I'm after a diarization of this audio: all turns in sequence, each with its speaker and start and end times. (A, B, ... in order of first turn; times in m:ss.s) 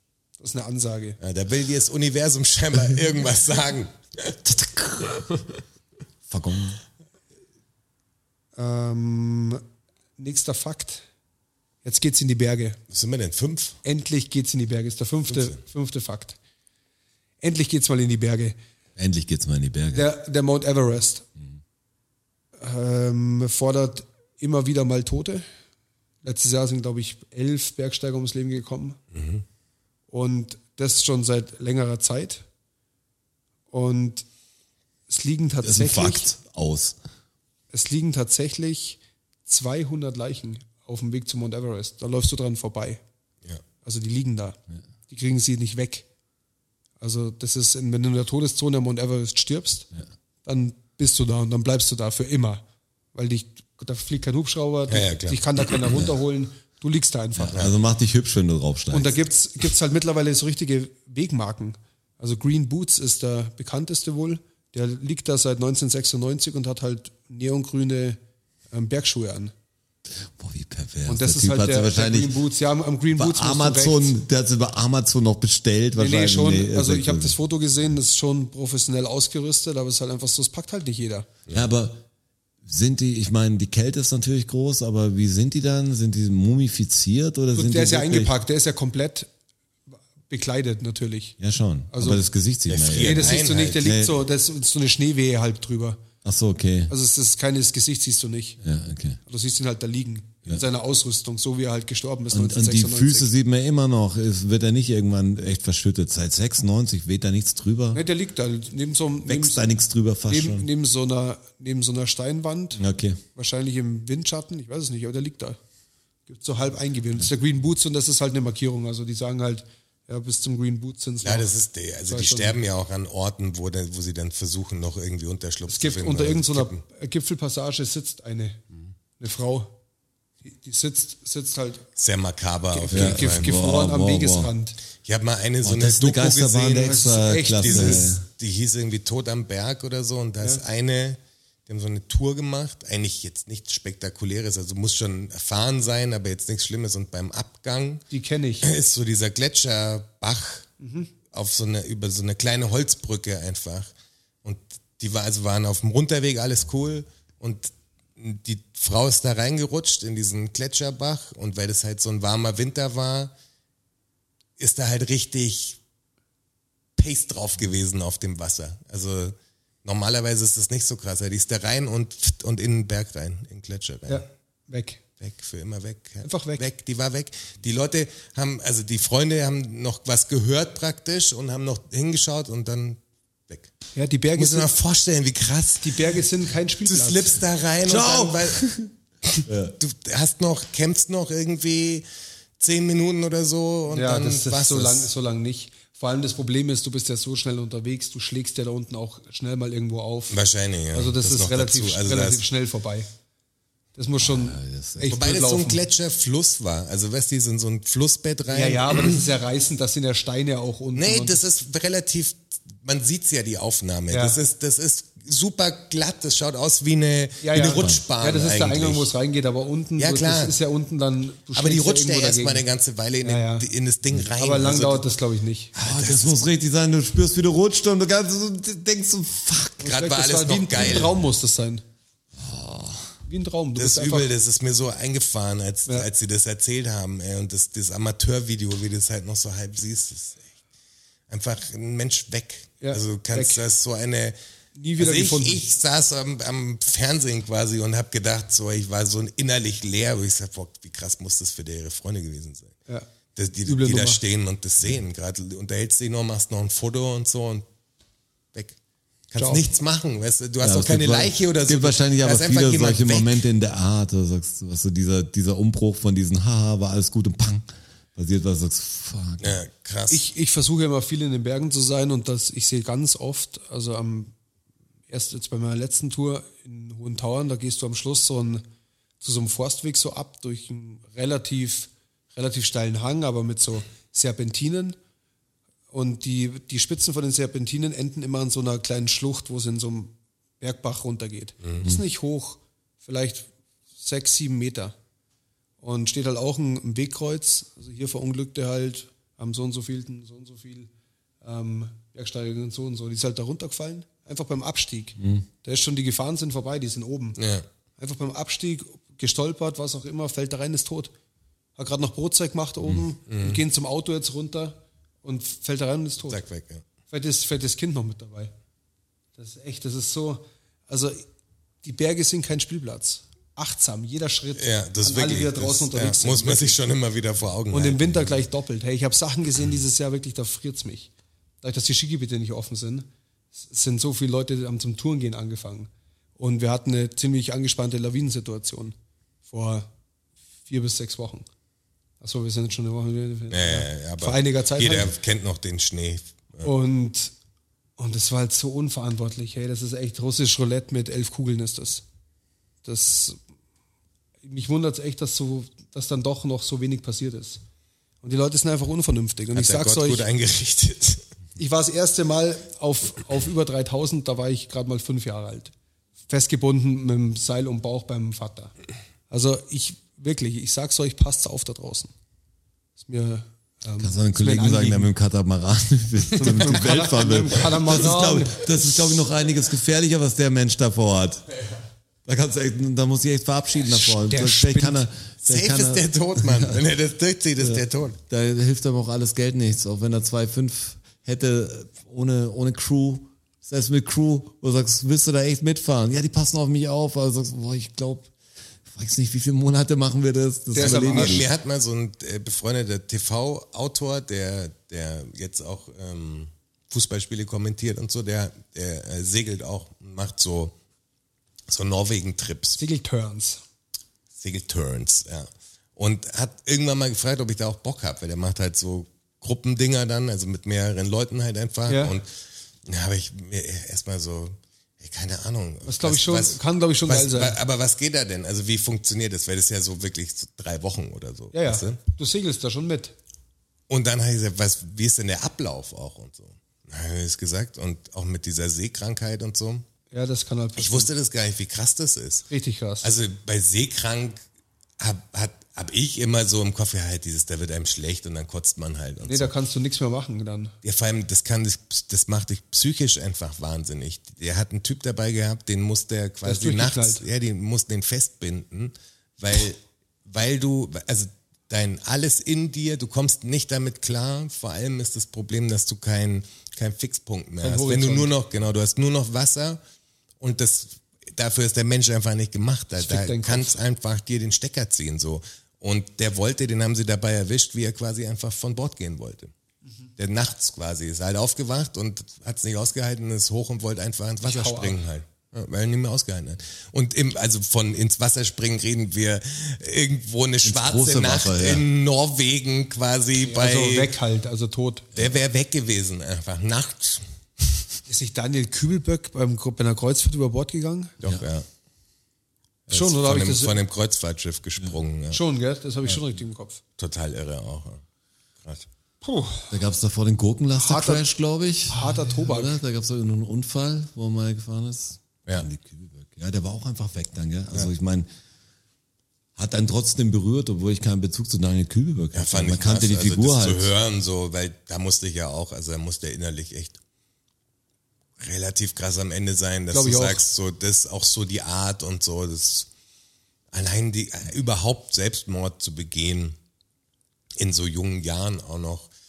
0:00.4-0:01.2 A
0:01.2-0:05.4 B
0:06.3-0:06.8 C
0:08.6-0:09.6 A
0:10.2-0:11.0 A
0:11.8-0:12.8 A
0:12.9-0:13.8 B
0:13.8-0:16.4 A
0:15.3-0:15.6 B
0:17.4-0:18.6 A
0:19.0-0:20.1 C
0:19.9-0:21.2 A
0:22.6-0:25.4 A
0:26.2-0:29.0 A
0:29.1-0:29.4 B
0:30.1-0:32.4 A
0:33.7-0:34.2 A
0:35.1-0:36.3 A
0:35.6-0:37.0 C
0:37.7-0:43.0 A
0:43.8-0:44.6 A
0:45.1-0:46.0 A
0:47.0-0:49.9 A
0:50.4-0:52.6 A
0:53.1-0:57.6 A
0:54.9-0:55.8 B
0:57.4-0:59.1 C
0:58.9-1:08.2 A
1:08.7-1:09.5 A
1:10.2-1:12.4 C
1:11.1-1:14.2 A
1:13.2-1:17.3 C
1:16.0-1:21.3 A
1:21.5-1:22.0 C
1:22.6-1:28.3 C
1:27.5-1:29.3 A
1:30.3-1:31.4 A
1:31.4-1:34.1 C
1:31.9-1:32.2 A
1:32.7-1:33.8 B
1:33.0-1:36.0 A
1:36.2-1:36.9 C
1:36.9-1:38.6 A
1:38.6-1:39.2 C
1:39.2-1:43.3 A
1:42.3-1:48.0 C
1:47.9-1:49.6 A
1:49.2-1:50.7 C
1:50.3-1:52.8 A
1:52.8-1:53.2 C
1:53.3-1:55.6 A
1:56.3-2:01.5 A
2:01.2-2:06.8 B
2:02.1-2:02.6 A
2:05.7-2:08.6 A
2:09.2-2:09.7 A
2:10.4-2:11.8 A
2:12.0-2:13.5 B
2:12.7-2:14.8 A
2:12.9-2:14.5 C
2:15.0-2:17.1 B
2:15.6-2:18.2 C
2:16.8-2:18.2 A
2:17.6-2:28.1 B
2:28.1-2:28.7 A
2:28.6-2:30.7 B
2:30.8-2:31.1 A
2:31.3-2:33.9 B
2:34.4-2:43.3 B
2:44.6-2:45.8 B
2:47.0-2:54.2 B
2:54.1-2:55.0 A
2:55.2-3:03.7 B
2:56.2-2:56.6 A
3:03.9-3:04.7 A
3:04.4-3:06.1 B
3:05.8-3:07.3 A
3:06.8-3:08.6 B
3:07.8-3:08.9 C
3:09.2-3:12.0 B
3:09.4-3:09.7 C
3:12.6-3:15.1 B
3:13.9-3:20.4 A
3:20.3-3:22.4 B
3:20.9-3:23.1 A
3:23.9-3:25.8 A
3:24.2-3:25.2 C
3:25.1-3:29.2 B
3:28.5-3:31.4 A
3:30.9-3:39.1 B
3:34.1-3:34.4 A
3:37.4-3:42.6 A
3:37.5-3:38.0 C
3:40.0-3:40.6 B
3:41.5-3:45.0 B
3:43.2-3:43.6 A
3:44.4-3:45.7 A
3:45.7-3:46.4 B
3:45.8-3:49.9 C
3:49.8-3:51.8 A
3:49.8-3:51.2 B
3:50.8-3:51.1 C
3:52.4-3:53.2 C
3:53.3-3:54.3 A
3:53.8-4:00.4 B
4:01.3-4:04.4 B
4:02.8-4:03.6 A
4:04.8-4:05.7 A
4:05.0-4:12.7 B
4:13.4-4:17.6 B
4:13.6-4:14.2 A
4:19.3-4:23.4 B
4:19.4-4:19.6 A
4:20.6-4:29.6 C
4:29.4-4:30.2 B
4:30.1-4:34.3 A
4:35.1-4:38.6 A
4:39.2-4:45.0 A
4:45.9-4:54.9 A
4:55.8-5:00.9 A
5:01.4-5:07.4 A
5:05.2-5:05.5 C
5:07.4-5:07.6 B
5:08.0-5:11.1 A
5:11.8-5:16.4 A
5:13.3-5:13.6 B
5:16.2-5:16.8 B
5:17.1-5:18.5 A
5:19.4-5:21.2 A
5:21.8-5:26.8 A
5:24.6-5:28.1 B
5:27.7-5:31.1 A
5:31.6-5:38.9 A
5:39.5-5:39.9 A
5:40.7-5:41.5 A
5:42.2-5:45.1 A
5:43.5-5:46.7 B
5:46.6-5:47.3 A
5:48.0-5:52.0 A
5:52.8-5:53.4 A
5:54.4-5:57.6 A
5:58.2-6:00.2 A
5:59.5-6:01.2 B
6:01.6-6:05.7 A
6:06.3-6:08.7 A
6:09.3-6:12.1 A
6:13.0-6:15.1 A
6:14.0-6:21.4 C
6:16.4-6:18.7 A
6:22.2-6:26.8 C
6:24.0-6:25.1 A
6:25.4-6:28.2 B
6:27.6-6:38.3 C
6:38.8-6:41.5 C
6:40.7-6:41.4 A
6:40.8-6:50.7 B
6:51.7-6:52.8 B
6:52.8-6:53.6 A
6:54.3-7:02.3 B
7:01.9-7:02.2 A
7:02.8-7:12.0 B
7:05.8-7:07.6 A
7:11.5-7:13.1 A
7:13.9-7:19.8 B
7:20.1-7:21.1 A
7:20.8-7:22.5 B
7:22.5-7:23.1 A
7:23.0-7:24.4 B
7:25.0-7:29.5 B
7:29.2-7:30.7 A
7:30.8-7:49.8 B
7:36.4-7:37.2 A
7:47.6-7:48.3 A
7:50.4-7:59.5 B
7:53.0-7:53.8 A
8:00.2-8:14.1 B
8:04.4-8:05.0 A
8:10.6-8:11.8 C
8:13.4-8:15.1 A
8:15.1-8:17.6 B
8:18.1-8:21.1 A
8:21.2-8:21.6 B
8:22.9-8:25.4 B
8:22.9-8:23.8 A
8:25.3-8:26.8 A
8:27.0-8:28.0 B
8:29.2-8:29.7 A
8:29.7-8:38.3 C
8:30.8-8:31.2 A
8:31.9-8:32.8 A
8:39.6-8:43.9 C
8:42.3-8:47.0 B
8:48.4-8:52.9 B
8:49.9-8:50.4 A
8:53.7-8:56.6 B
8:57.6-8:59.1 B